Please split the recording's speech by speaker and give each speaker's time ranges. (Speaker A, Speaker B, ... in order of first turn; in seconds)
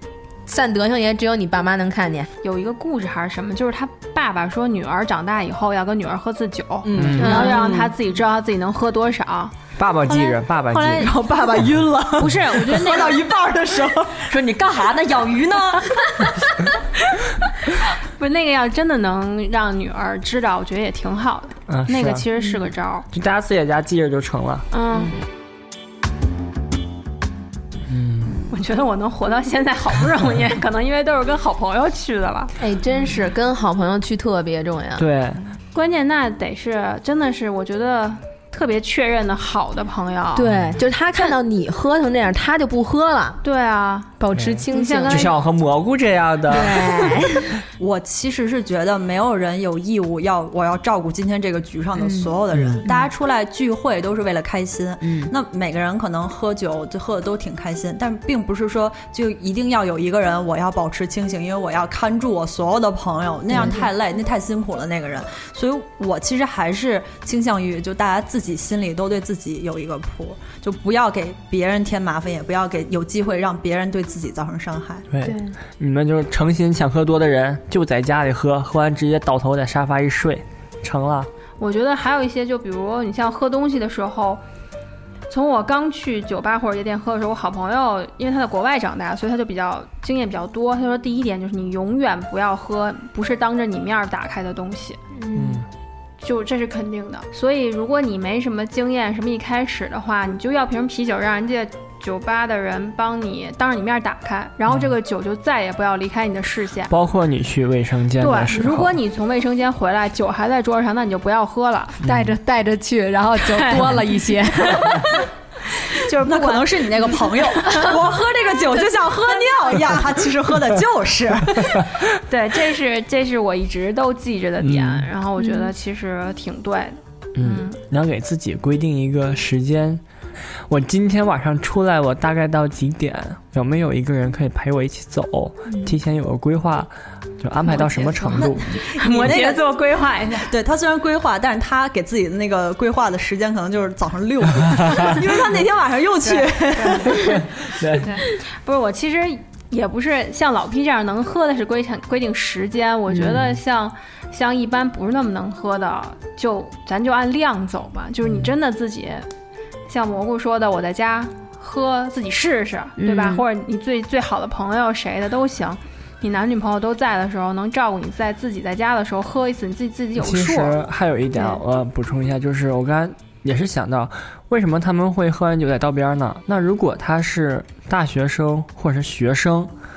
Speaker A: 0.5-2.3, 7.2-7.8, 32.6-35.0, 40.3-43.4, 44.2-45.3, 46.5-47.5, 52.0-52.3, 55.0-55.3, 75.2-75.5, 95.1-95.6, 112.0-115.2, 125.4-125.7, 153.1-153.4, 163.0-163.4
Speaker B: 2.4-11.1, 12.2-13.2, 18.2-23.1, 24.7-25.1, 28.5-32.5, 35.7-40.5, 43.4-44.1, 44.7-45.3, 81.6-84.4, 85.3-95.0, 96.2-106.9, 108.2-112.0, 113.4-114.1, 114.6-115.0, 115.9-117.9, 122.3-127.8, 138.9-140.5, 146.2-147.4, 148.0-159.3, 159.9-170.8
Speaker C: 6.8-7.9, 14.2-16.5
Speaker D: 6.9-7.5, 9.8-11.1, 21.7-22.2, 23.1-24.6, 27.9-28.5, 35.0-35.4, 40.5-40.8, 44.3-47.2, 52.5-52.9, 75.1-81.3, 95.3-95.7, 106.9-109.0, 112.0-112.3, 124.6-125.1, 127.3-130.0, 130.7-138.8, 144.8-145.2, 147.3-148.1, 153.2-153.6, 170.2-179.7
Speaker E: 10.9-14.3, 47.8-75.0, 116.1-121.8, 138.4-139.6, 140.4-147.4